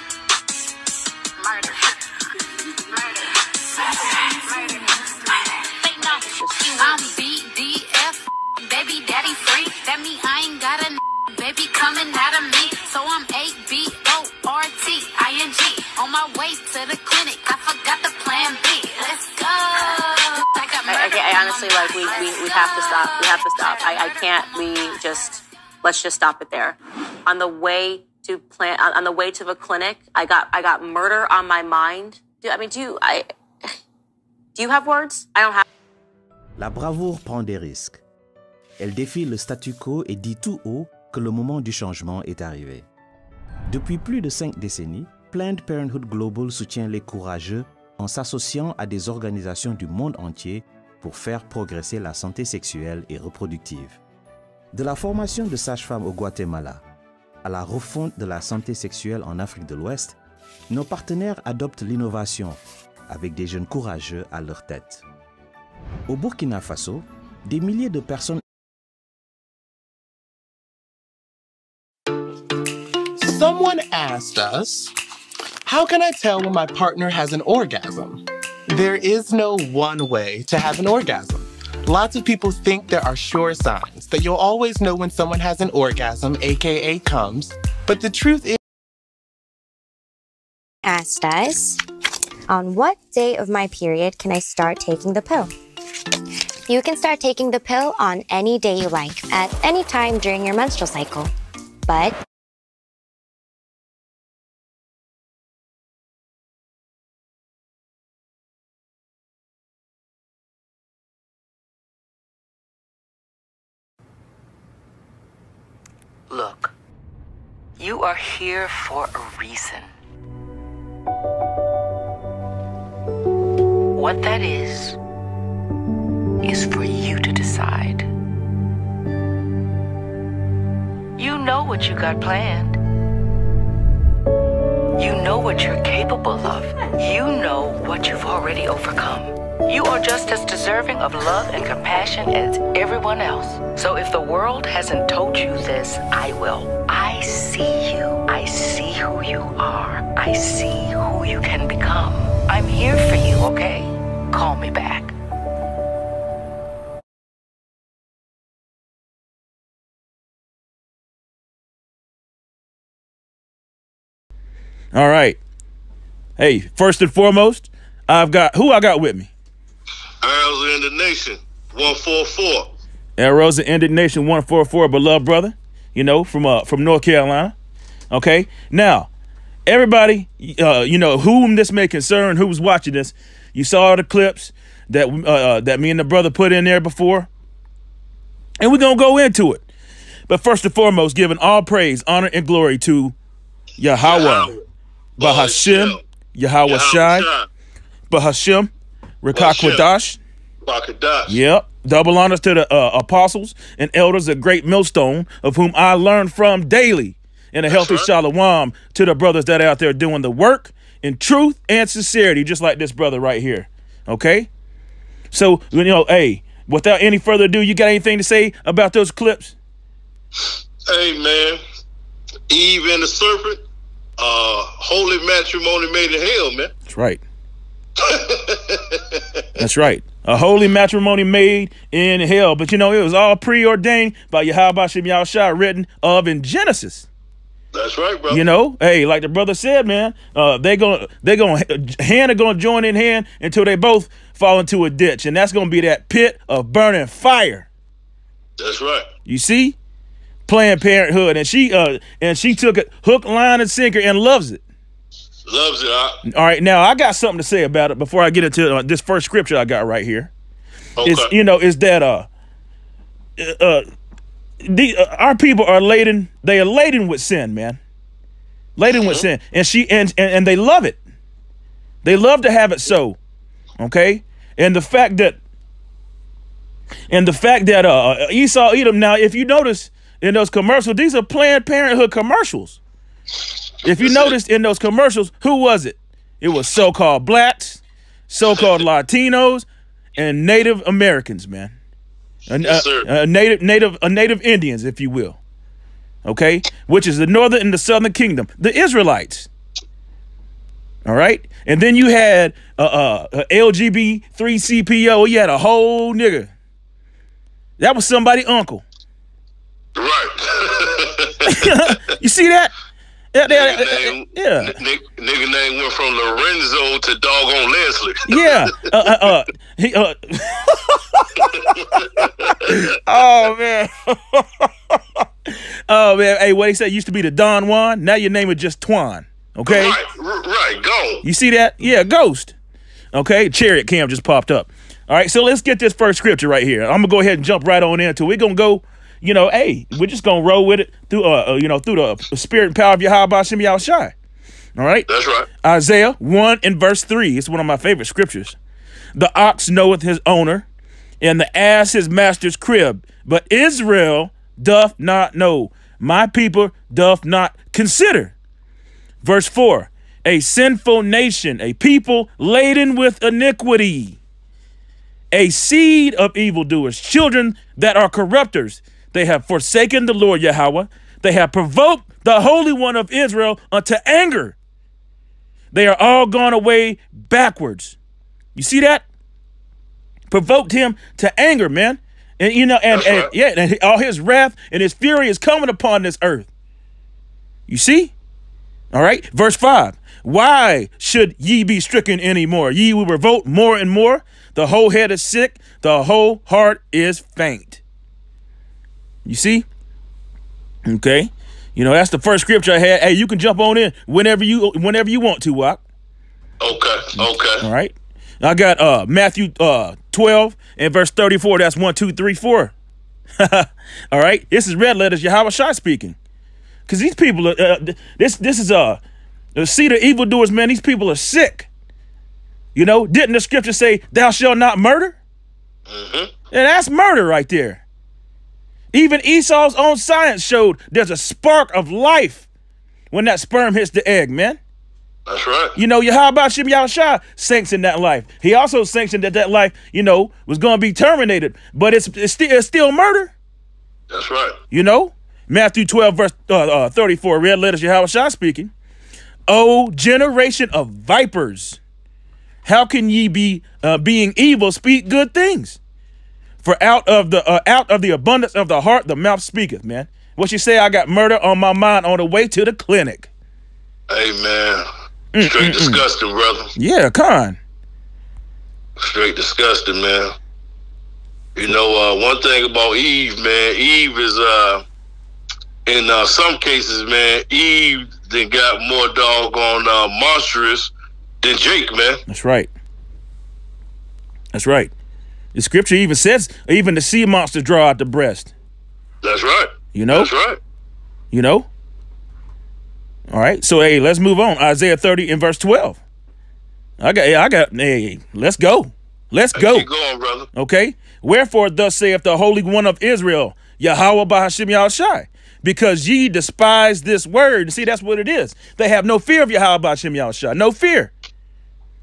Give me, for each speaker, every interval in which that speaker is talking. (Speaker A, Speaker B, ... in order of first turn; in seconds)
Speaker A: 1.4-2.4, 2.9-24.4
Speaker B: 6.0-7.1, 20.9-33.7, 34.6-35.6
Speaker C: 36.6-38.0, 38.8-42.9, 43.7-54.0, 54.7-56.8, 57.4-60.2, 60.7-65.0, 66.1-68.4
Speaker D: 73.2-74.9, 75.7-88.6
Speaker E: 90.8-91.8, 92.5-95.5, 96.7-101.3, 101.9-102.2
Speaker F: 116.3-116.7, 117.8-119.9, 123.9-125.0, 126.4-128.1, 131.2-132.8, 135.0-155.1
Speaker G: 164.9-165.4, 166.4-169.3, 173.2-177.5, 178.1-179.1, 179.7-187.3, 188.6-189.6, 190.3-193.2, 193.8-194.5, 195.2-197.3, 198.1-198.7, 199.2-200.2, 201.3-214.5, 215.3-219.6, 226.9-227.2, 229.6-237.1, 238.3-247.7, 249.3-249.8, 250.5-254.6, 256.2-260.3, 261.0-262.3, 263.4-263.8, 264.6-267.8, 268.8-271.0, 272.0-273.2, 273.8-275.4, 277.1-282.8, 283.8-291.7, 292.5-295.4, 296.2-299.5, 301.1-306.5, 307.8-308.8, 311.5-312.7, 313.3-314.8, 318.3-330.0, 331.2-332.5, 333.1-344.1, 344.8-345.1, 345.6-348.6, 349.1-350.7, 351.2-358.4, 359.2-364.2, 365.3-374.6, 375.7-378.0, 378.6-379.0, 380.3-386.5, 387.7-388.1, 388.9-397.8, 399.3-399.7, 400.9-405.8, 407.2-412.7, 413.4-416.2, 416.9-419.0, 419.6-421.7, 422.8-425.2, 426.5-427.8, 428.9-432.4, 433.1-434.6, 435.8-443.3, 444.7-448.7, 449.5-451.8, 452.6-455.8, 456.6-463.3, 465.4-466.0, 466.8-467.6, 482.3-482.7, 484.5-484.9, 485.6-488.5, 489.9-490.3, 491.3-491.7, 493.3-496.0, 497.0-499.9, 500.5-511.1
Speaker H: 170.2-172.7, 194.0-194.6, 195.2-196.0, 196.7-197.5, 199.3-199.8, 200.6-201.4, 207.7-208.1, 220.9-221.6, 222.5-223.6, 224.2-226.7, 228.0-229.4, 237.7-238.4, 248.6-249.1, 255.5-256.2, 261.0-261.3, 268.9-269.2, 284.0-284.4, 288.4-288.8, 292.6-293.1, 309.9-311.8, 313.5-318.9, 321.5-322.8, 329.7-331.2, 345.1-345.5, 382.9-383.3, 406.6-407.7, 425.9-426.3, 435.3-435.8, 444.1-444.6, 464.1-464.9, 465.4-466.7, 469.0-470.4, 471.6-474.8, 475.9-480.9, 481.4-482.2, 489.2-490.6, 499.6-500.5